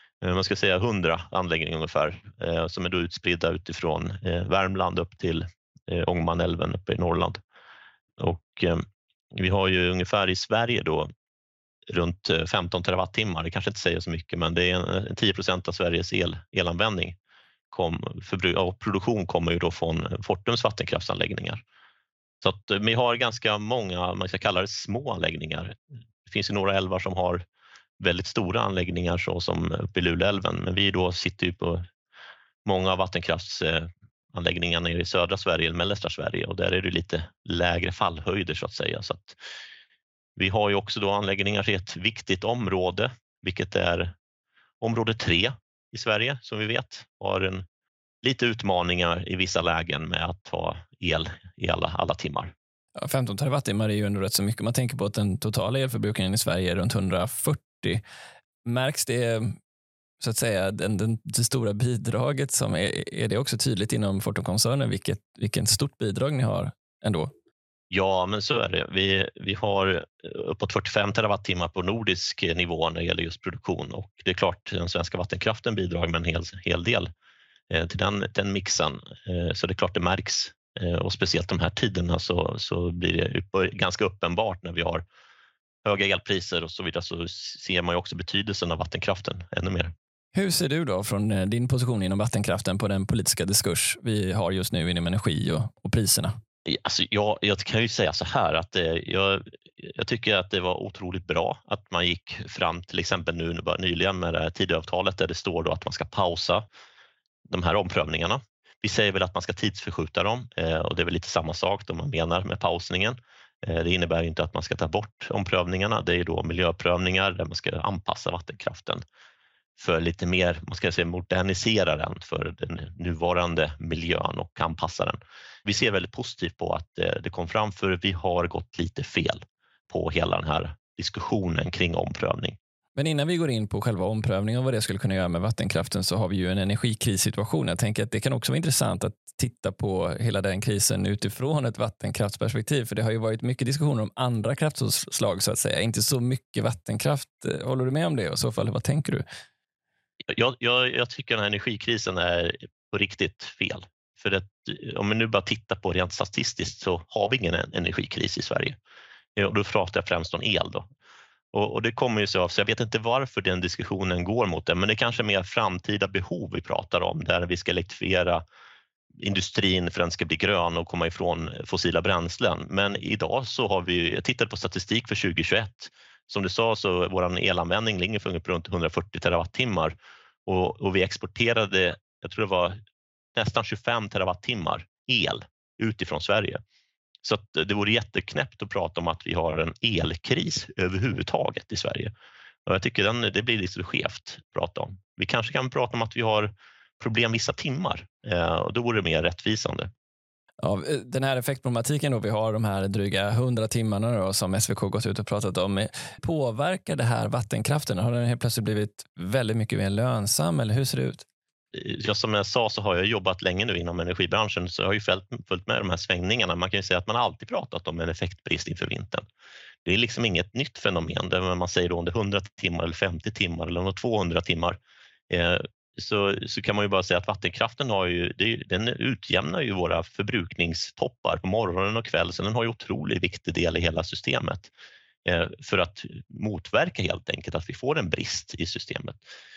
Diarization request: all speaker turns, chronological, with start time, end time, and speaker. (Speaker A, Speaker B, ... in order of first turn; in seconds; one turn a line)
Speaker A: 0.2-7.4
Speaker A: 8.2-11.1
Speaker A: 11.9-17.2
Speaker A: 17.7-21.6
Speaker A: 22.4-27.4
Speaker A: 28.0-31.9
Speaker A: 32.6-39.4
Speaker A: 40.4-44.1
Speaker A: 44.8-47.6
Speaker A: 48.2-52.5
Speaker B: 53.0-58.0
Speaker B: 58.6-59.6
Speaker B: 60.2-67.3
Speaker A: 67.9-77.1
Speaker A: 77.7-85.0
Speaker A: 85.8-89.9
Speaker B: 90.3-96.3
Speaker A: 96.7-106.7
Speaker A: 107.5-119.0
Speaker A: 119.8-132.6
Speaker B: 133.0-149.2
Speaker A: 150.3-158.8
Speaker A: 159.4-160.9
Speaker A: 161.5-168.4
Speaker A: 169.2-179.9
Speaker A: 180.5-182.8
Speaker A: 183.3-186.6
Speaker A: 187.2-192.1
Speaker A: 192.7-199.9
Speaker B: 200.6-211.2
Speaker A: 211.7-219.2
Speaker A: 219.8-224.8
Speaker A: 225.3-234.7
Speaker A: 235.2-239.2